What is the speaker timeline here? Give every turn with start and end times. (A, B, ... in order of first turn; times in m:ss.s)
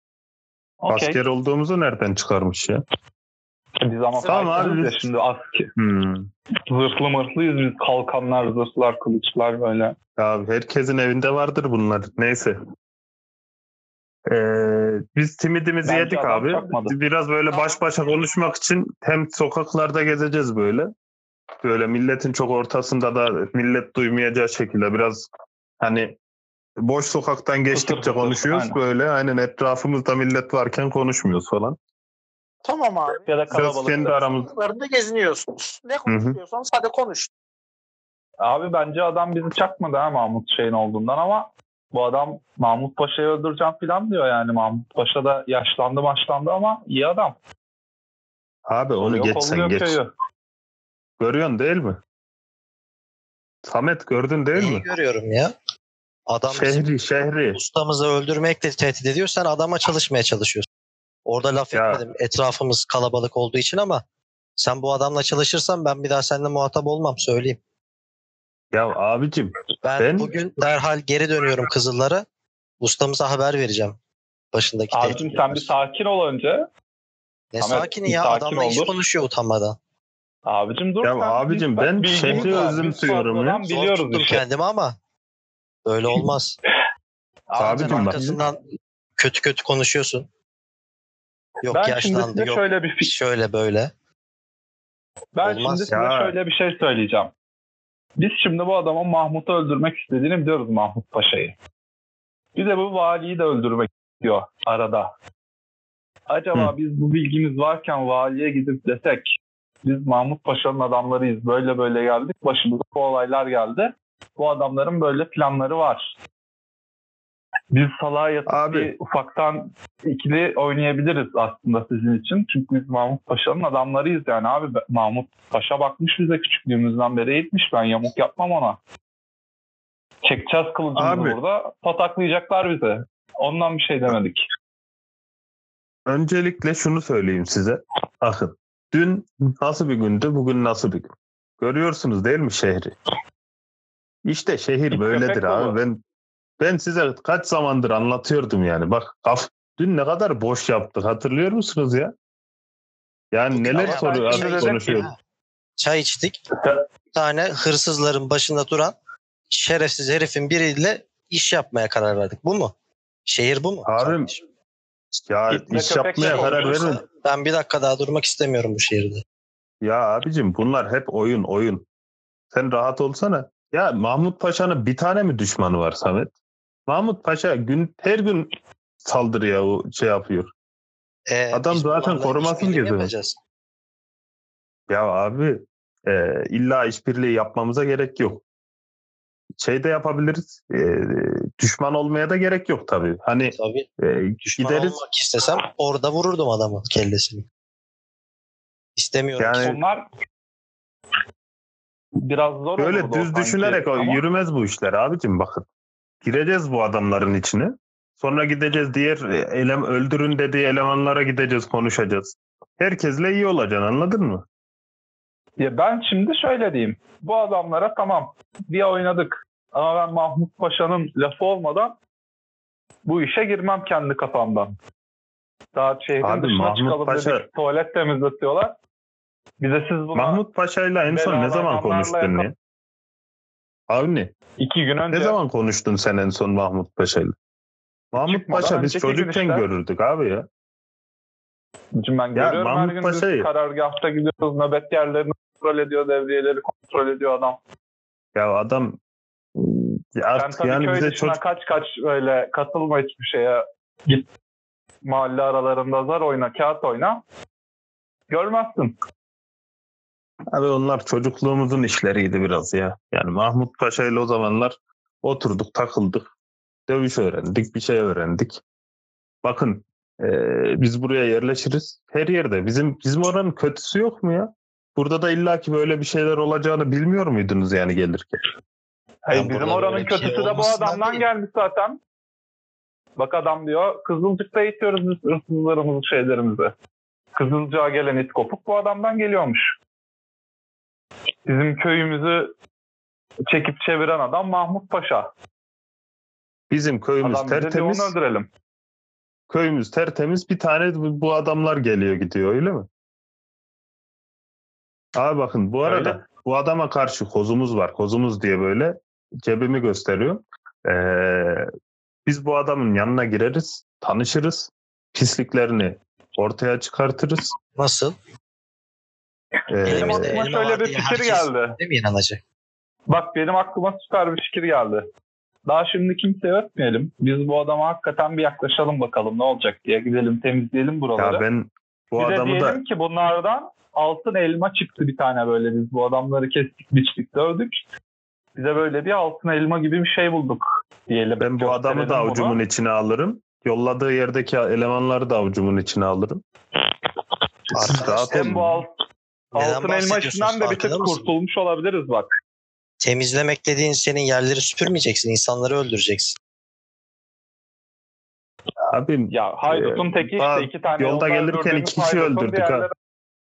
0:00.8-0:01.2 A
0:00.9-0:02.8 B
0:03.8-0:05.7 A
0:04.1-0:04.8 C
0:04.3-0:05.0 B
0:05.8-0:06.3 B
0:06.7-0:10.0 A
0:10.2-0:12.6 B
0:14.3-0:20.9 B
0:15.8-0:16.9 A
0:17.5-0:17.8 C
0:21.6-0:25.3 B
0:25.8-0:26.2 B
0:26.8-0:31.8 B
0:27.7-0:28.8 A
0:32.6-0:33.2 C
0:33.2-0:34.2 A
0:33.5-0:34.5 B
0:34.0-0:37.3 C
0:36.1-0:36.4 B
0:38.4-0:47.4 A
0:48.6-0:50.0 B
0:49.0-0:50.1 A
0:51.2-0:52.0 B
0:53.6-0:54.8 B
0:54.6-0:55.5 D
0:56.3-0:56.9 D
0:56.5-0:57.6 B
0:57.5-1:00.7 D
1:01.2-1:04.0 D
1:01.7-1:02.0 B
1:04.6-1:07.6 D
1:08.7-1:10.3 B
1:09.8-1:12.2 D
1:12.8-1:14.0 D
1:14.5-1:15.7 D
1:14.9-1:16.6 A
1:17.5-1:19.8 D
1:17.6-1:18.9 A
1:20.4-1:24.4 A
1:21.0-1:23.6 B
1:22.2-1:22.8 D
1:23.6-1:25.0 D
1:25.8-1:26.6 D
1:27.5-1:28.6 D
1:27.6-1:28.4 B
1:27.8-1:28.1 A
1:29.2-1:30.3 D
1:31.6-1:33.9 D
1:31.7-1:33.1 A
1:35.4-1:37.3 A
1:35.4-1:35.9 D
1:35.9-1:36.3 B
1:38.2-1:41.5 A
1:42.5-1:45.1 A
1:46.3-1:56.1 A
1:57.7-2:08.8 A
1:58.5-1:58.9 B
2:10.2-2:14.4 A
2:11.0-2:11.4 B
2:16.1-2:22.9 B
2:24.2-2:26.0 B
2:24.9-2:25.8 A
2:26.6-2:32.1 B
2:33.3-2:35.1 B
2:33.5-2:35.2 D
2:33.7-2:35.1 A
2:35.8-2:36.4 D
2:37.1-2:38.9 D
2:39.5-2:42.7 D
2:43.2-2:44.4 D
2:43.8-2:44.3 B
2:45.3-2:47.0 B
2:45.5-2:46.9 A
2:46.2-2:49.2 D
2:49.8-2:51.8 B
2:52.5-2:56.3 B
2:56.9-2:58.5 B
2:59.0-3:00.5 B
3:01.3-3:03.4 D
3:01.5-3:03.1 B
3:04.9-3:08.4 B
3:09.6-3:15.0 B
3:13.4-3:13.9 D
3:14.4-3:17.4 D
3:19.0-3:19.8 D
3:19.4-3:19.8 B
3:19.6-3:20.0 A
3:22.2-3:24.2 A
3:22.8-3:25.6 B
3:26.2-3:34.4 B
3:35.6-3:42.0 A
3:43.0-3:44.7 A
3:45.7-3:48.8 A
3:46.2-3:47.4 B
3:49.6-3:50.4 A
3:50.1-3:52.5 B
3:51.0-3:52.5 A
3:53.9-3:54.3 B
3:54.6-3:55.4 A
3:55.1-3:57.3 B
3:58.1-4:00.4 B
3:58.2-3:59.6 A
4:02.0-4:07.6 A
4:02.3-4:03.5 B
4:08.3-4:09.0 B
4:09.6-4:11.4 B
4:10.4-4:14.2 A
4:15.0-4:17.2 A
4:18.3-4:18.9 A
4:20.5-4:26.3 B
4:26.9-4:28.6 B
4:29.4-4:38.5 B
4:39.2-4:42.0 A
4:39.3-4:41.3 D
4:43.2-4:46.7 A
4:47.3-4:49.7 A
4:51.4-4:52.5 A
4:53.5-4:55.3 A
4:56.7-4:58.1 B
4:57.2-4:58.5 A
4:59.5-5:02.9 B
5:05.2-5:11.6 B
5:05.8-5:06.2 A
5:12.2-5:17.5 B
5:17.8-5:18.1 D
5:19.7-5:20.4 B
5:19.8-5:21.8 A
5:19.8-5:22.4 D
5:23.1-5:25.0 A
5:25.6-5:31.4 A
5:31.2-5:32.8 B
5:32.2-5:37.8 A
5:38.5-5:42.6 A
5:41.4-5:46.4 B
5:47.7-5:48.6 D
5:47.9-5:48.8 B
5:47.9-5:48.9 A
5:49.5-5:51.3 D
5:49.5-5:52.3 A
5:53.0-5:56.4 D
5:58.9-6:02.9 B
5:59.3-6:02.9 A